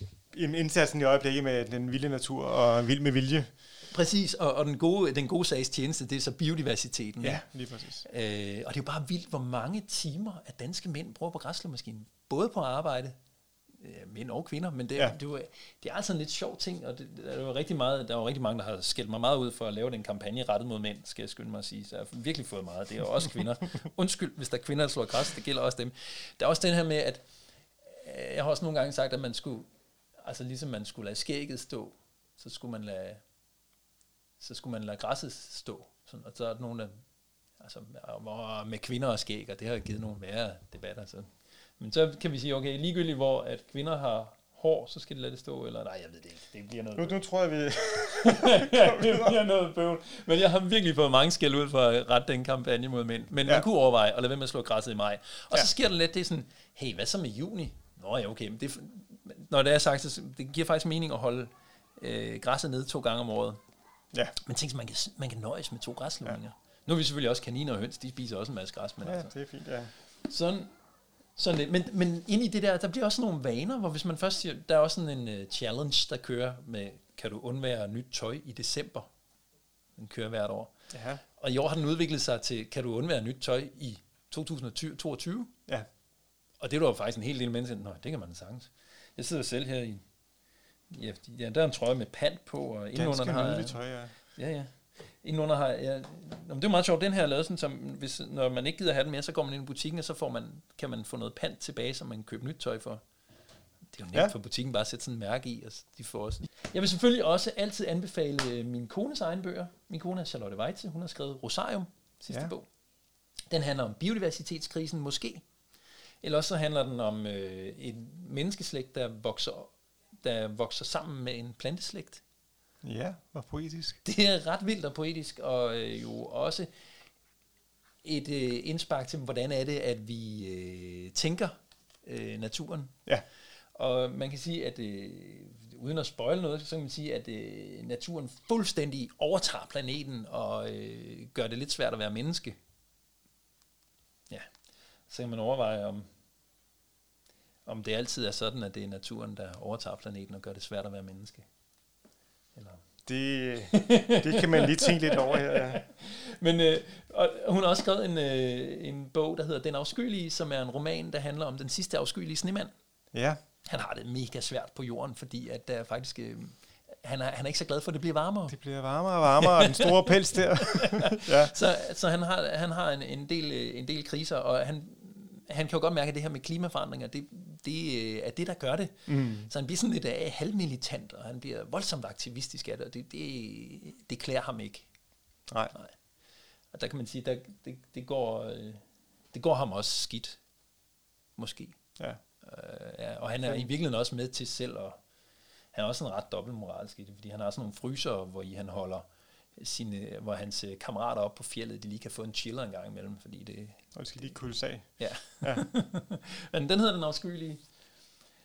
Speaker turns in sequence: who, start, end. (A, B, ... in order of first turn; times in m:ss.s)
0:00.3-0:03.5 A
0:03.9-0:07.4 B
0:07.2-0:08.0 A
0:08.0-0:13.1 B
0:13.8-0:27.2 B
0:27.8-0:29.7 B
0:30.2-0:33.2 B
0:34.4-0:36.9 B
0:37.6-0:47.2 B
0:47.0-0:49.4 A
0:48.1-1:03.6 B
1:04.4-1:09.3 B
1:09.0-1:09.9 A
1:10.2-1:10.7 B
1:11.4-1:19.1 B
1:20.0-1:20.7 B
1:20.9-1:21.2 A
1:21.4-1:25.5 B
1:26.6-1:30.0 B
1:30.9-1:33.8 B
1:32.9-1:34.1 A
1:34.3-1:43.0 B
1:43.9-1:52.7 B
1:53.5-1:55.4 B
1:56.2-2:02.2 B
2:02.8-2:04.0 A
2:04.0-2:06.7 B
2:08.0-2:12.9 B
2:13.7-2:22.6 B
2:25.1-2:26.1 B
2:27.6-2:31.4 B
2:32.6-2:32.8 B
2:33.0-2:35.8 A
2:33.7-2:42.7 B
2:43.1-2:43.4 A
2:43.6-2:48.6 B
2:48.5-2:51.5 A
2:49.4-3:04.9 B
2:59.1-2:59.5 A
3:06.7-3:10.4 B
3:11.4-3:11.8 B
3:12.4-3:15.0 B
3:15.7-3:19.0 B
3:19.6-3:23.8 B
3:24.0-3:25.6 A
3:25.0-3:27.6 B